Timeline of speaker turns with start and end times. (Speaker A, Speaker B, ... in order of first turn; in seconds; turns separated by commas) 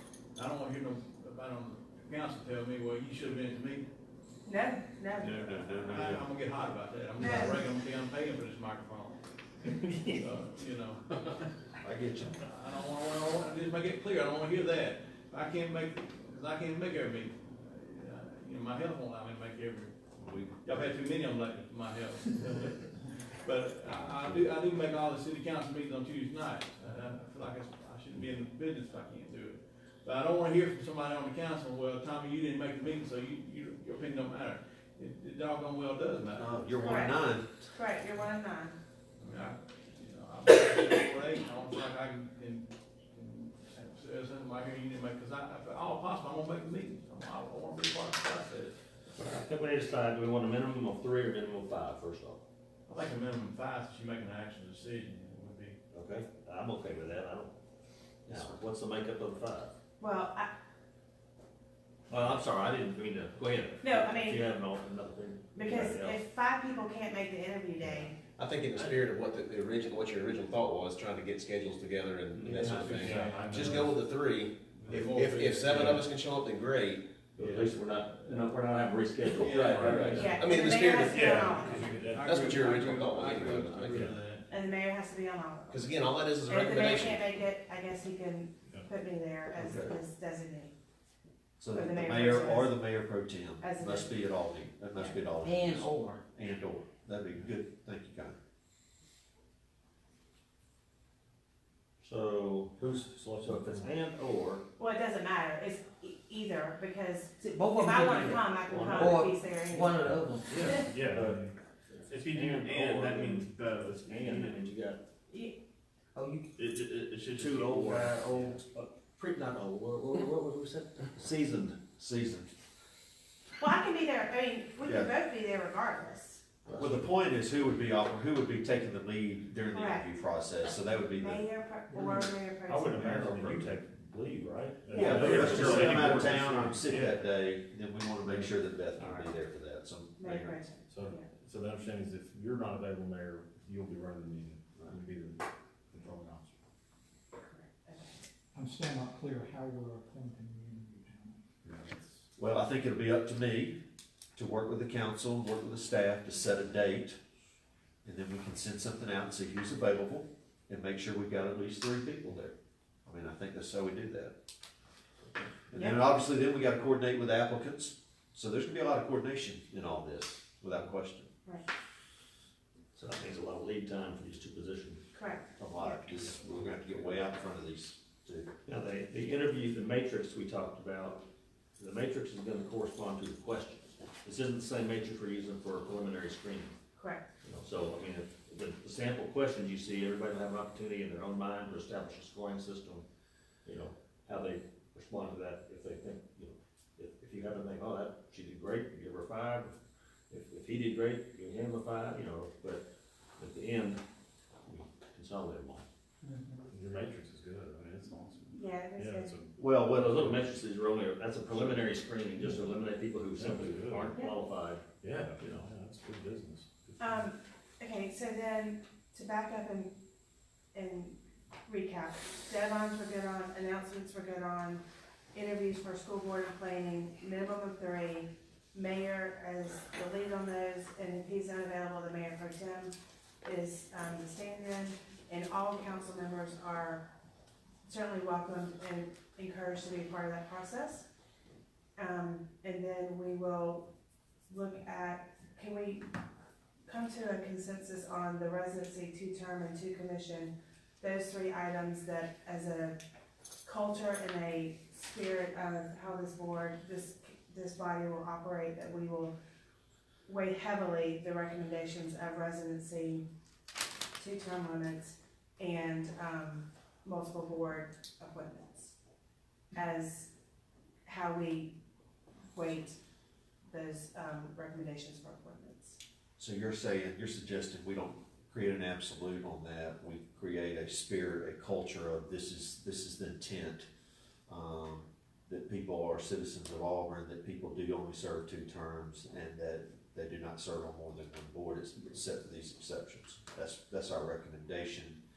Speaker A: 0.3-3.9, Speaker B: 4.4-5.8, Speaker C: 5.2-6.2, Speaker A: 5.9-9.2, Speaker B: 7.2-7.6, Speaker C: 7.2-7.5, Speaker D: 9.8-10.2, Speaker A: 9.8-11.2, Speaker C: 11.8-12.3, Speaker A: 12.4-19.9, Speaker C: 20.2-20.6, Speaker A: 20.6-36.5, Speaker C: 36.3-37.6, Speaker B: 36.8-37.1, Speaker B: 37.7-38.8, Speaker A: 39.2-48.7, Speaker D: 49.1-52.4, Speaker A: 52.9-55.8, Speaker D: 55.9-57.5, Speaker C: 58.2-58.6, Speaker D: 58.2-59.7, Speaker B: 60.0-60.5, Speaker D: 62.1-66.2, Speaker B: 63.8-64.5, Speaker B: 65.5-68.2, Speaker E: 68.3-77.1, Speaker F: 72.3-74.0, Speaker A: 72.5-73.6, Speaker F: 74.8-76.0, Speaker A: 74.9-76.0, Speaker D: 77.3-80.2, Speaker A: 77.4-78.4, Speaker A: 79.4-80.4, Speaker E: 79.6-84.1, Speaker F: 79.6-80.5, Speaker B: 80.2-81.9, Speaker F: 81.0-82.5, Speaker A: 81.7-84.5, Speaker F: 83.8-84.2, Speaker B: 84.5-85.9, Speaker E: 85.7-87.3, Speaker B: 86.4-90.7, Speaker C: 89.5-89.9, Speaker C: 91.6-98.3, Speaker B: 91.7-92.9, Speaker B: 93.6-94.3, Speaker B: 94.9-95.3, Speaker G: 95.4-96.2, Speaker D: 102.0-104.6, Speaker B: 104.8-110.0, Speaker G: 107.4-110.8, Speaker D: 108.7-109.1, Speaker F: 110.5-114.7, Speaker B: 110.6-111.0, Speaker D: 111.1-115.0, Speaker G: 116.1-116.5, Speaker F: 116.6-118.6, Speaker D: 116.6-121.8, Speaker G: 118.0-118.5, Speaker C: 122.0-122.5, Speaker B: 123.6-126.4, Speaker C: 124.8-125.1, Speaker D: 126.6-127.1, Speaker C: 126.8-131.4, Speaker B: 129.7-130.1, Speaker B: 131.1-133.3, Speaker F: 131.9-134.0, Speaker D: 131.9-136.0, Speaker F: 134.8-137.3, Speaker B: 134.9-136.2, Speaker C: 134.9-140.6, Speaker F: 138.2-138.5, Speaker B: 140.2-141.3, Speaker F: 140.9-146.6, Speaker B: 147.3-148.2, Speaker H: 148.5-151.4, Speaker F: 151.6-152.2, Speaker C: 152.4-153.8, Speaker C: 154.3-157.2, Speaker C: 158.0-162.5, Speaker C: 163.1-164.3, Speaker C: 165.7-171.3, Speaker D: 172.9-175.0, Speaker B: 175.1-176.0, Speaker C: 175.6-178.5, Speaker D: 178.7-181.2, Speaker D: 181.8-186.8, Speaker B: 186.9-187.3, Speaker D: 187.4-193.0, Speaker D: 193.6-199.7, Speaker D: 200.3-202.8, Speaker D: 203.4-204.0, Speaker D: 204.7-205.8, Speaker H: 206.2-206.6, Speaker F: 206.7-209.6, Speaker B: 208.5-209.3, Speaker C: 209.6-210.2, Speaker D: 209.9-214.8, Speaker F: 210.2-210.5, Speaker F: 212.4-212.7, Speaker F: 213.3-214.2, Speaker F: 215.0-217.3, Speaker D: 215.4-215.7, Speaker B: 217.0-219.9, Speaker B: 220.7-224.8, Speaker B: 225.3-237.1, Speaker B: 237.8-241.1, Speaker B: 242.0-243.9, Speaker B: 244.5-246.1, Speaker B: 246.9-253.0, Speaker B: 253.6-259.3, Speaker B: 260.2-263.2, Speaker B: 264.2-268.9, Speaker B: 269.7-270.3, Speaker B: 271.0-271.8, Speaker B: 272.5-273.0, Speaker B: 273.7-276.0, Speaker C: 276.4-283.9, Speaker C: 284.5-295.2